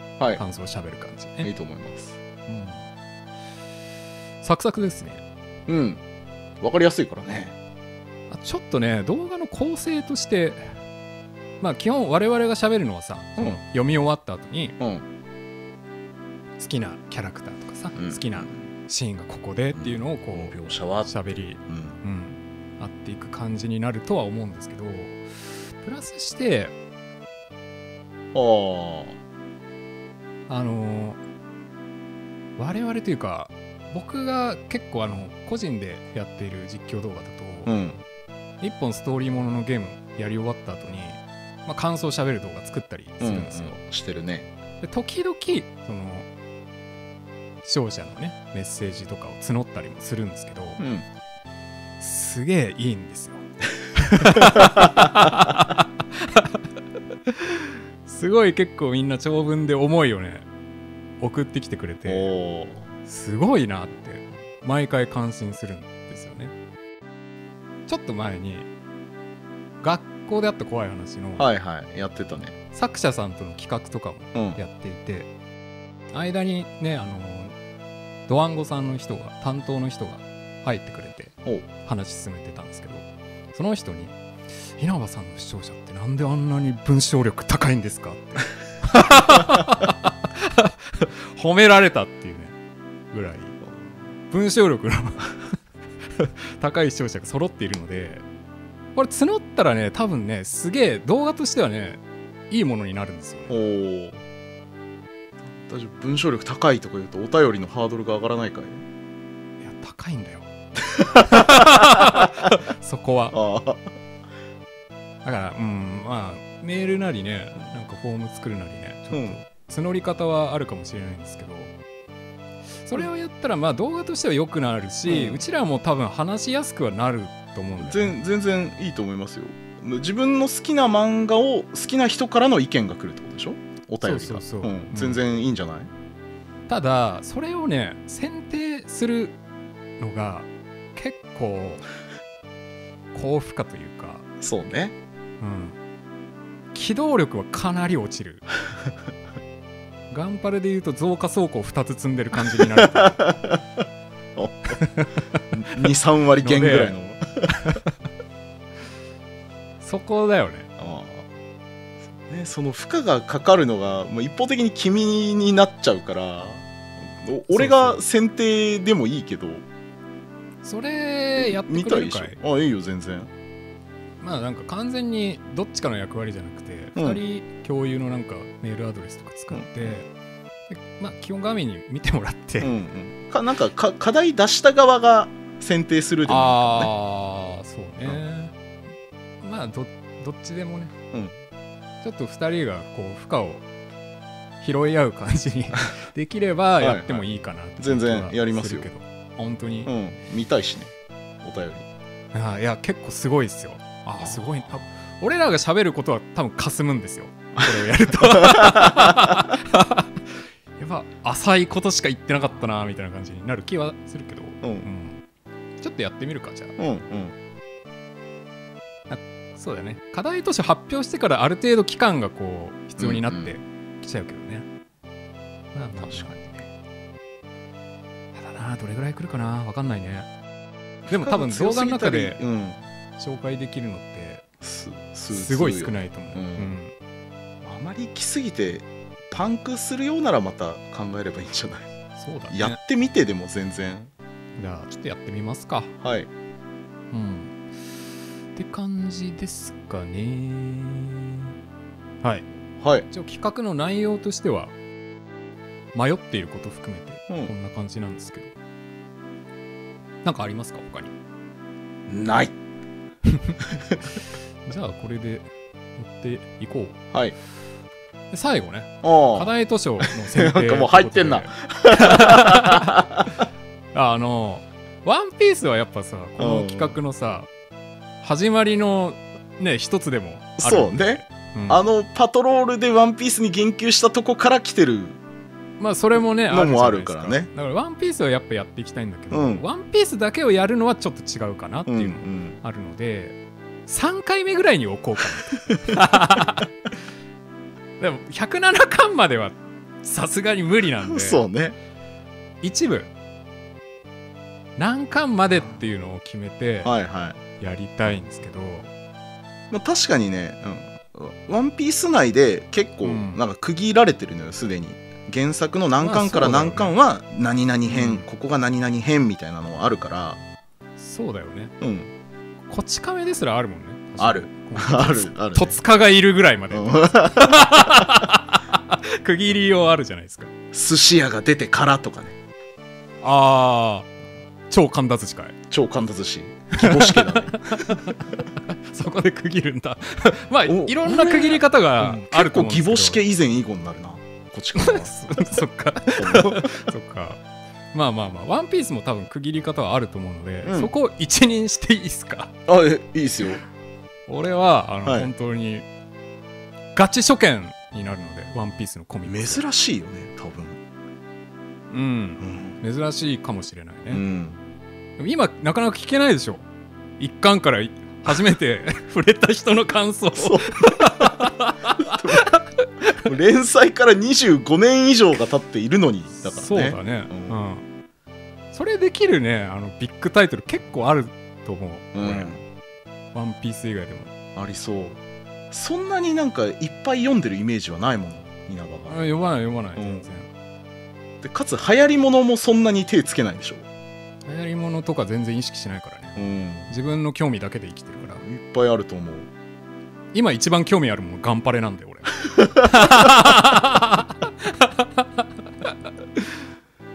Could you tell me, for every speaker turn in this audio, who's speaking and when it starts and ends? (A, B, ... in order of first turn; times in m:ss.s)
0:00.4-0:01.5 A
0:01.4-0:02.2 B
0:02.5-0:02.8 A
0:04.4-0:05.2 A
0:05.7-0:06.0 B
0:06.6-0:07.6 B
0:08.3-0:10.8 A
0:11.6-0:14.8 A
0:14.8-0:15.0 B
0:16.6-0:26.8 A
0:18.0-0:18.6 B
0:19.7-0:22.0 B
0:28.3-0:29.2 B
0:30.5-0:31.2 A
0:32.6-0:37.7 A
0:37.7-0:38.0 B
0:38.6-0:43.8 A
0:43.2-0:44.5 B
0:44.8-0:46.3 A
0:47.6-0:50.8 A
0:50.8-0:51.1 B
0:52.0-0:56.6 A
0:54.4-0:54.8 B
0:57.3-1:00.5 A
1:01.2-1:02.3 A
1:02.1-1:02.8 B
1:03.1-1:06.5 A
1:07.9-1:08.7 A
1:09.8-1:11.5 A
1:11.4-1:12.6 B
1:12.7-1:15.3 A
1:14.3-1:14.6 B
1:16.1-1:17.6 A
1:18.3-1:32.6 A
1:33.1-1:33.6 A
1:34.3-1:35.4 A
1:36.2-1:38.2 A
1:39.0-1:43.6 A
1:43.5-1:44.2 B
1:45.6-1:48.8 B
1:49.6-1:50.5 A
1:50.9-1:52.0 B
1:51.2-1:53.4 A
1:53.3-1:53.8 B
1:55.2-2:01.8 A
1:59.1-1:59.4 B
2:02.8-2:08.2 A
2:05.1-2:05.4 B
2:07.8-2:15.9 B
2:14.0-2:15.2 A
2:16.7-2:19.4 A
2:20.0-2:21.8 A
2:23.1-2:24.3 A
2:24.4-2:25.0 B
2:25.4-2:25.8 A
2:26.7-2:28.5 A
2:30.1-2:33.2 A
2:32.6-2:33.6 B
2:34.4-2:34.8 B
2:34.7-2:35.6 A
2:35.5-2:37.5 B
2:36.4-2:37.0 A
2:37.6-2:37.9 A
2:39.8-2:40.7 A
2:40.8-2:41.3 B
2:42.2-2:49.7 B
2:47.5-2:48.0 A
2:50.6-2:52.4 A
2:51.4-2:53.3 B
2:54.2-3:00.1 A
2:57.0-2:57.2 B
2:59.5-3:00.0 B
3:00.7-3:02.7 A
3:02.6-3:06.9 B
3:06.3-3:08.5 A
3:09.4-3:10.9 A
3:12.0-3:13.6 A
3:14.6-3:19.9 A
3:16.8-3:17.2 B
3:17.8-3:18.9 B
3:19.8-3:20.9 B
3:21.4-3:21.9 B
3:22.3-3:35.2 A
3:27.8-3:29.5 B
3:34.6-3:34.9 B
3:35.8-3:36.8 A
3:36.8-3:37.4 B
3:39.1-3:44.7 A
3:43.0-3:43.5 B
3:45.7-3:46.7 A
3:46.0-3:46.4 B
3:48.3-3:50.3 A
3:51.1-3:52.8 B
3:51.1-3:52.4 A
3:53.2-3:54.4 A
3:54.6-3:56.7 B
3:55.3-3:56.9 A
3:57.6-4:01.9 B
4:02.2-4:02.8 A
4:02.5-4:04.1 B
4:04.6-4:05.9 A
4:06.0-4:06.3 B
4:07.1-4:07.6 A
4:08.6-4:11.5 A
4:12.2-4:12.5 A
4:12.8-4:13.1 B
4:13.1-4:14.7 A
4:15.9-4:18.5 A
4:20.2-4:21.1 A
4:22.1-4:22.5 B
4:23.3-4:23.6 A
4:24.7-4:27.0 A
4:28.3-4:33.0 A
4:29.0-4:29.5 B
4:30.0-4:33.3 B
4:33.9-4:37.5 A
4:36.4-4:37.0 B
4:38.2-4:41.8 A
4:40.6-4:45.2 B
4:45.8-4:56.7 A
4:46.5-4:47.5 B
4:49.3-4:49.6 B
4:51.9-4:52.6 B
4:58.0-5:01.4 A
5:01.0-5:01.8 B
5:02.6-5:03.1 A
5:04.8-5:06.9 A
5:06.8-5:07.4 B
5:07.6-5:08.9 A
5:09.7-5:20.4 B
5:13.0-5:13.4 A
5:16.0-5:16.9 A
5:17.9-5:18.2 A
5:21.0-5:21.7 A
5:21.8-5:22.1 B
5:22.7-5:30.5 A
5:24.2-5:25.8 B
5:26.7-5:27.6 B
5:30.7-5:32.4 B
5:33.2-5:34.1 A
5:34.7-5:35.6 A
5:35.7-5:38.0 B
5:36.8-5:43.2 A
5:40.7-5:45.6 B
5:44.8-5:47.4 A
5:46.2-5:46.7 B
5:47.9-5:52.5 A
5:50.6-5:50.9 B
5:52.7-5:53.6 B
5:54.3-5:55.9 A
5:55.0-5:55.3 B
5:57.0-5:59.6 A
5:59.3-6:00.8 B
6:01.9-6:04.2 A
6:02.4-6:02.8 B
6:04.1-6:04.6 B
6:05.2-6:06.7 A
6:07.2-6:13.3 A
6:10.4-6:11.2 B
6:12.0-6:12.5 B
6:13.2-6:17.6 B
6:16.4-6:17.8 A
6:18.7-6:22.5 A
6:22.1-6:22.6 B
6:23.3-6:24.3 A
6:24.6-6:29.3 B
6:29.1-6:30.5 A
6:30.0-6:30.3 B
6:31.4-6:33.9 B
6:34.4-6:38.4 A
6:36.4-6:36.9 B
6:38.2-6:39.5 B
6:40.3-6:46.4 A